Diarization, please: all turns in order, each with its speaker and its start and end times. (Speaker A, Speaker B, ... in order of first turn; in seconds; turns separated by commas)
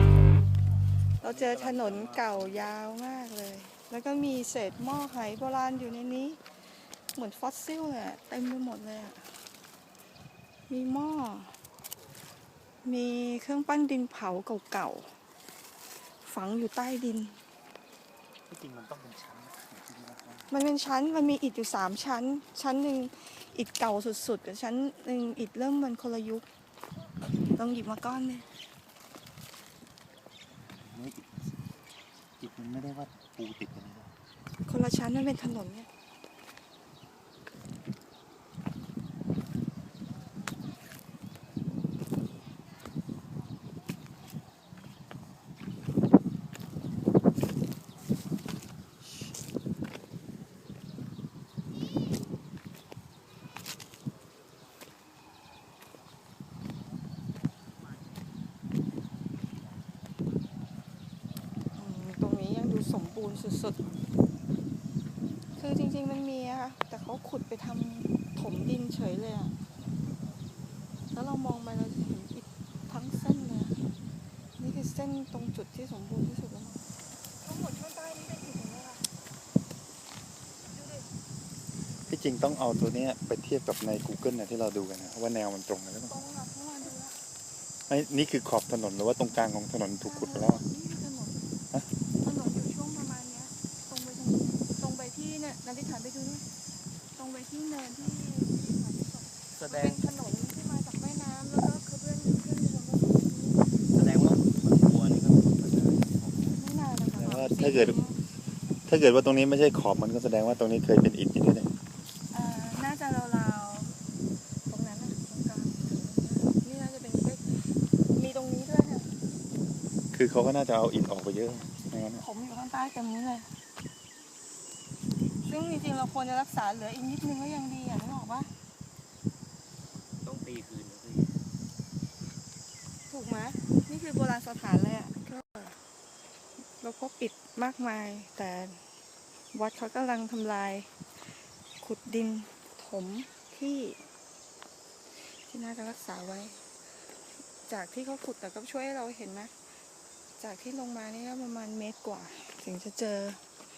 Speaker A: 1.2-6.4, Speaker B: 1.2-2.4, Speaker C: 1.5-2.3, Speaker A: 7.0-9.4, Speaker A: 10.7-11.6, Speaker A: 12.8-15.2, Speaker A: 16.1-17.4, Speaker C: 18.5-20.5, Speaker A: 20.5-26.4, Speaker A: 27.5-28.5, Speaker C: 30.7-31.6, Speaker C: 32.4-34.1, Speaker A: 34.6-35.9, Speaker A: 61.8-63.8, Speaker A: 65.6-69.6, Speaker A: 71.1-73.8, Speaker A: 74.6-76.8, Speaker A: 77.4-79.0, Speaker C: 82.1-86.2, Speaker A: 86.1-87.2, Speaker C: 87.9-90.6, Speaker A: 90.0-91.5, Speaker A: 92.2-96.5, Speaker A: 97.1-103.7, Speaker C: 99.6-100.0, Speaker B: 104.0-106.1, Speaker C: 104.0-104.7, Speaker C: 105.5-106.3, Speaker A: 106.5-108.2, Speaker C: 107.2-108.0, Speaker C: 108.9-111.7, Speaker A: 112.3-114.0, Speaker A: 114.7-119.2, Speaker C: 120.1-122.2, Speaker A: 122.2-123.5, Speaker A: 125.4-128.5, Speaker B: 130.2-131.4, Speaker A: 133.1-135.8, Speaker A: 136.6-138.9, Speaker A: 139.5-141.2, Speaker A: 141.8-144.1, Speaker A: 145.2-146.8, Speaker A: 147.6-149.6, Speaker A: 150.4-153.6